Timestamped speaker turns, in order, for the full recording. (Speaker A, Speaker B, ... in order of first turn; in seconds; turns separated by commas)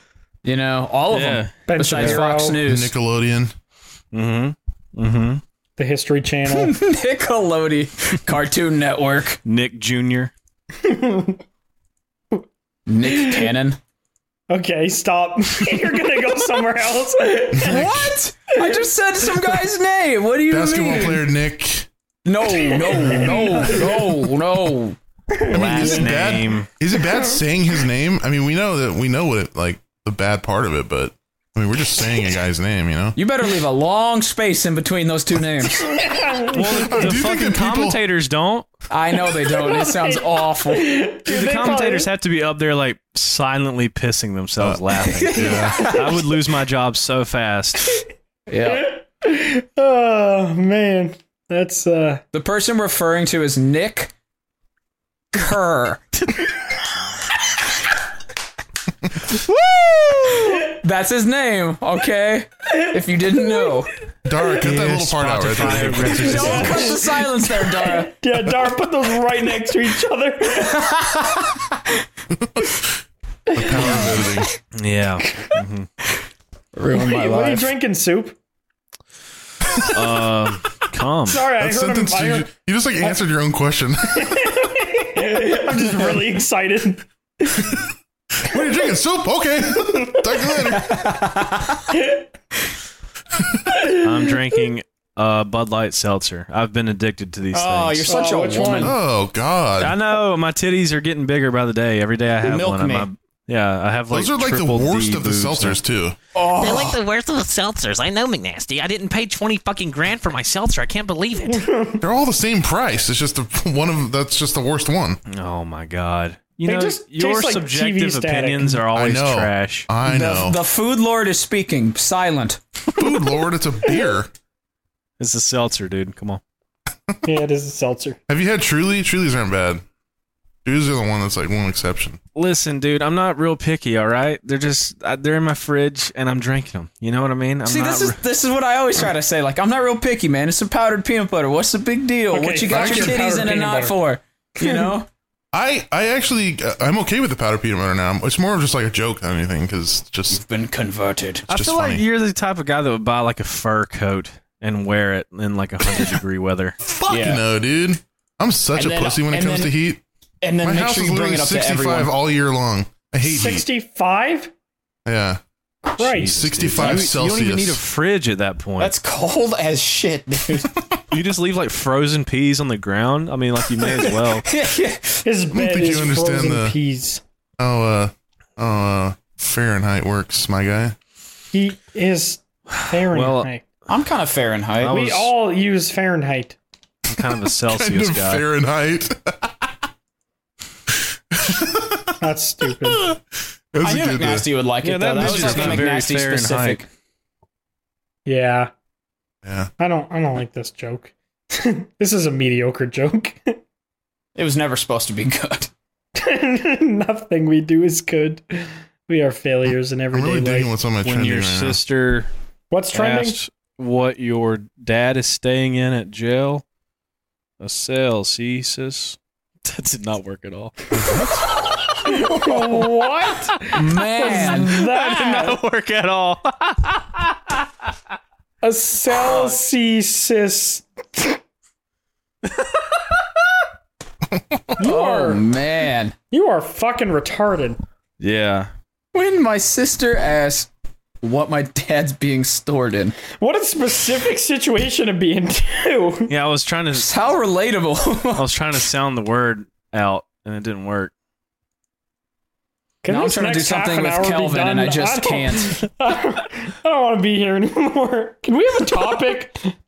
Speaker A: 0.4-2.9, Speaker B: 1.1-2.2, Speaker C: 1.7-2.6, Speaker D: 2.6-3.5, Speaker B: 4.1-5.4, Speaker C: 5.8-6.8, Speaker A: 6.5-9.4, Speaker B: 9.4-10.3, Speaker C: 10.8-11.4, Speaker A: 12.9-13.8, Speaker C: 13.1-13.5, Speaker C: 14.5-18.8, Speaker D: 17.5-18.1, Speaker A: 17.6-21.2, Speaker D: 20.5-21.9, Speaker A: 22.2-25.0, Speaker C: 22.4-24.1, Speaker C: 25.3-26.1, Speaker D: 25.5-33.2, Speaker B: 25.5-26.7, Speaker C: 26.9-27.4, Speaker A: 33.1-35.9, Speaker C: 35.8-37.0, Speaker B: 36.5-38.7, Speaker D: 36.9-38.0, Speaker A: 38.9-41.0, Speaker C: 39.3-42.1, Speaker B: 41.2-47.9, Speaker A: 45.1-46.2, Speaker D: 45.3-45.9, Speaker A: 48.5-48.9, Speaker C: 48.6-52.2, Speaker A: 52.3-54.1, Speaker A: 55.3-56.2, Speaker A: 60.1-63.9, Speaker D: 64.2-66.8, Speaker B: 64.6-67.0, Speaker A: 65.9-68.1, Speaker C: 66.0-70.8, Speaker A: 70.6-71.6, Speaker D: 72.3-72.9, Speaker C: 73.5-73.8, Speaker D: 73.5-74.5, Speaker B: 74.7-75.9, Speaker A: 76.8-77.7, Speaker C: 76.9-78.4, Speaker B: 79.9-81.5, Speaker C: 81.3-82.5, Speaker D: 81.6-84.5, Speaker C: 84.1-87.7, Speaker D: 88.4-91.0, Speaker A: 90.8-91.8, Speaker C: 91.9-92.2, Speaker B: 94.0-98.2, Speaker A: 97.5-98.9, Speaker C: 98.0-99.0, Speaker D: 98.8-100.0, Speaker B: 99.8-105.8, Speaker A: 102.4-103.1, Speaker D: 104.1-106.2, Speaker A: 106.3-107.0, Speaker E: 106.5-111.6, Speaker C: 111.5-112.0, Speaker D: 112.0-115.2, Speaker B: 115.3-119.9, Speaker C: 116.6-118.8, Speaker D: 118.9-120.6, Speaker A: 120.0-122.6, Speaker D: 123.0-124.3, Speaker B: 125.2-126.4, Speaker C: 127.2-128.2, Speaker D: 128.3-129.8, Speaker D: 130.6-132.2, Speaker B: 132.3-138.2, Speaker A: 137.7-145.1, Speaker C: 142.3-144.0, Speaker D: 142.7-143.2, Speaker C: 144.6-144.9, Speaker D: 145.5-150.4, Speaker A: 150.3-151.4, Speaker B: 151.5-156.7, Speaker D: 151.5-152.1, Speaker D: 156.8-160.0, Speaker A: 157.1-157.4, Speaker A: 158.7-159.7, Speaker A: 160.4-162.1, Speaker D: 160.6-163.6, Speaker C: 163.2-164.5, Speaker D: 165.1-165.4, Speaker C: 166.0-166.4, Speaker B: 166.0-168.9, Speaker D: 166.2-167.8, Speaker A: 166.8-167.1, Speaker A: 168.8-170.7, Speaker B: 171.1-174.5, Speaker A: 173.9-175.2, Speaker C: 175.2-177.2, Speaker D: 175.5-176.8, Speaker D: 177.6-180.9, Speaker C: 181.5-183.6, Speaker B: 182.7-183.5, Speaker A: 183.9-185.1, Speaker B: 184.8-185.3, Speaker C: 184.9-186.6, Speaker B: 187.1-188.4, Speaker D: 187.6-189.5, Speaker D: 190.9-192.1, Speaker C: 192.2-193.1, Speaker D: 192.8-193.2, Speaker D: 193.7-194.5, Speaker A: 193.8-196.9, Speaker B: 194.8-196.9, Speaker C: 198.2-198.7, Speaker D: 199.4-199.7, Speaker C: 199.8-203.6, Speaker A: 204.4-205.7, Speaker C: 206.1-210.7, Speaker D: 210.1-211.8, Speaker B: 211.0-212.3, Speaker C: 212.7-213.4, Speaker B: 212.9-216.6, Speaker B: 217.6-220.9, Speaker D: 220.9-221.4, Speaker C: 222.0-225.6, Speaker A: 223.7-224.8, Speaker B: 224.2-227.6, Speaker C: 228.6-231.4, Speaker B: 229.1-229.6, Speaker C: 234.8-235.4, Speaker A: 234.8-236.1, Speaker C: 236.3-237.8, Speaker B: 238.2-238.7, Speaker A: 239.1-240.7, Speaker A: 241.2-243.2, Speaker C: 243.3-246.3, Speaker B: 246.3-247.1, Speaker A: 246.9-248.5, Speaker B: 248.4-251.1, Speaker C: 253.0-259.7, Speaker A: 253.1-255.7